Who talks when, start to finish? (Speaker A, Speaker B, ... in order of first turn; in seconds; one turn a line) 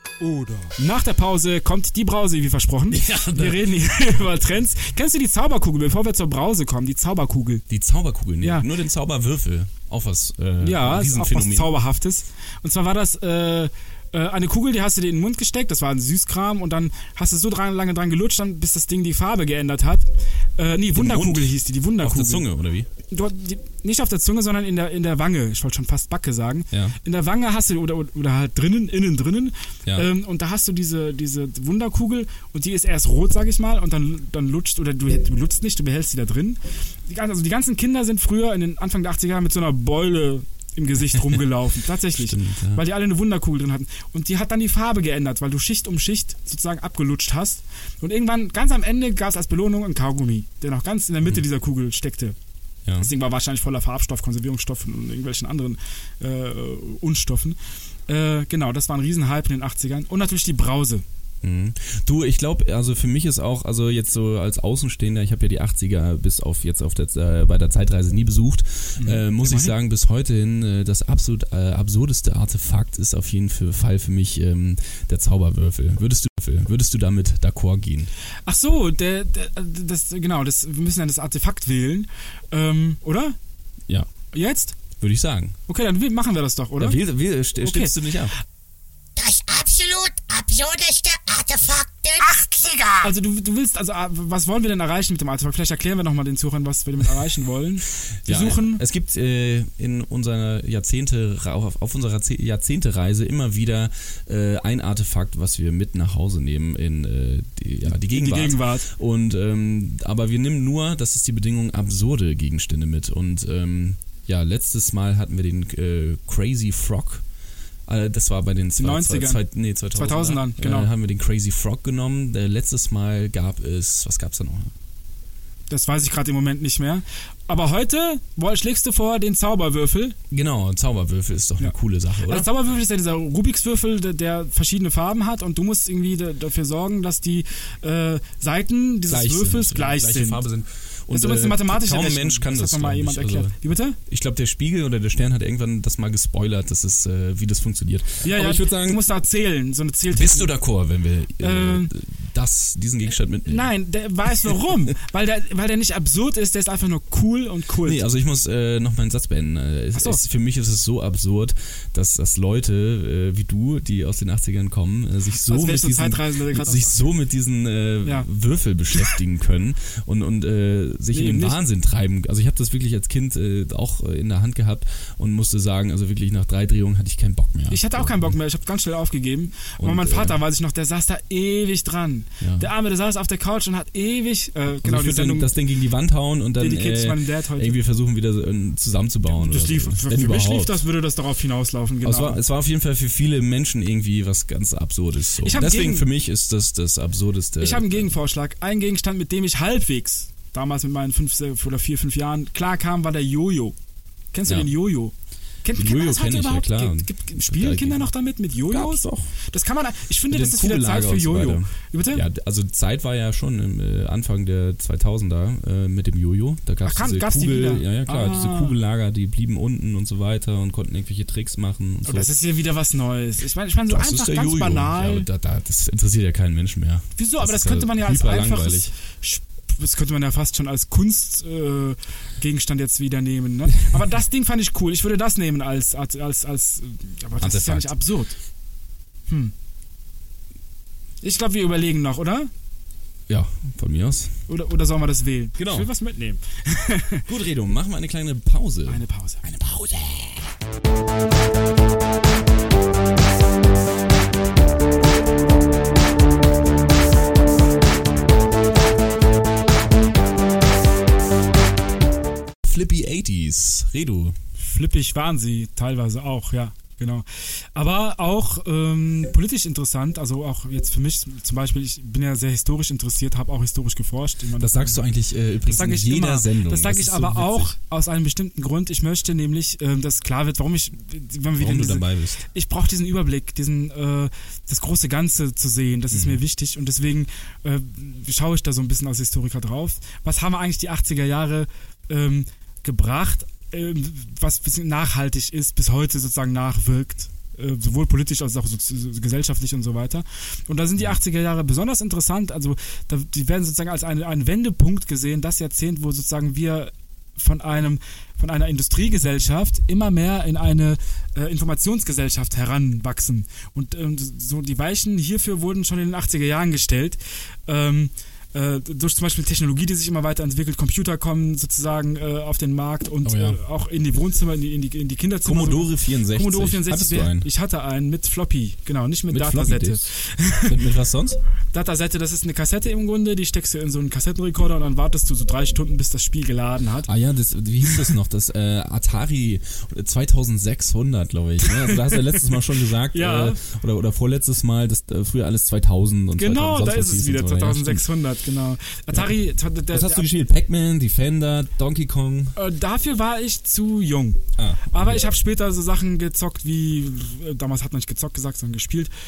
Speaker A: 0.2-7.6
Speaker B: 2.9-3.7
Speaker B: 7.7-11.7
Speaker A: 8.4-8.7
Speaker A: 10.6-22.5
Speaker B: 20.9-22.9
Speaker A: 23.1-52.4
Speaker B: 26.7-27.0
Speaker B: 42.1-42.8
Speaker A: 53.0-61.0
Speaker B: 61.4-78.1
Speaker A: 69.0-69.8
Speaker A: 78.5-83.4
Speaker A: 84.3-84.8
Speaker B: 85.0-85.6
Speaker A: 85.7-87.0
Speaker B: 86.8-88.3
Speaker A: 87.6-88.0
Speaker C: 89.2-93.1
Speaker A: 93.0-98.8
Speaker B: 98.2-117.2
Speaker A: 107.9-108.9
Speaker B: 117.9-124.7
Speaker A: 118.8-120.9
Speaker A: 125.7-130.2
Speaker B: 130.3-132.5
Speaker A: 132.3-140.4
Speaker B: 139.1-143.6
Speaker A: 141.1-144.0
Speaker B: 144.1-149.0
Speaker A: 148.2-150.5
Speaker B: 150.1-153.7
Speaker A: 151.4-151.9
Speaker A: 153.5-158.1
Speaker B: 157.8-178.3
Speaker A: 159.9-160.2
Speaker A: 165.4-167.0
Speaker A: 171.1-171.6
Speaker A: 177.7-185.5
Speaker B: 179.8-180.4
Speaker B: 182.4-182.7
Speaker B: 184.8-190.8
Speaker A: 186.6-187.8
Speaker A: 189.3-192.4
Speaker B: 192.0-198.1
Speaker A: 195.4-196.1
Speaker A: 197.6-203.8
Speaker A: 204.3-212.2
Speaker B: 204.5-204.7
Speaker B: 205.7-208.1
Speaker B: 208.7-209.3
Speaker B: 210.3-222.3
Speaker A: 216.8-218.8
Speaker A: 222.1-225.3
Speaker B: 223.9-228.9
Speaker A: 227.2-238.3
Speaker B: 237.4-238.0
Speaker A: 239.3-239.5
Speaker A: 241.2-242.5
Speaker B: 243.3-244.4
Speaker A: 244.5-247.3
Speaker B: 245.6-245.9
Speaker B: 247.3-250.5
Speaker A: 248.9-249.4
Speaker B: 262.6-264.4
Speaker A: 264.6-275.0
Speaker B: 274.6-277.7
Speaker A: 275.6-330.8
Speaker B: 281.6-282.4
Speaker B: 286.1-286.4
Speaker B: 323.2-323.6
Speaker B: 325.4-327.5
Speaker B: 329.3-330.1
Speaker B: 330.6-331.4
Speaker A: 331.7-337.1
Speaker B: 337.1-348.1
Speaker A: 341.6-342.4
Speaker A: 343.1-343.6
Speaker A: 346.4-350.3
Speaker B: 349.9-352.6
Speaker A: 352.6-359.1
Speaker B: 354.6-355.3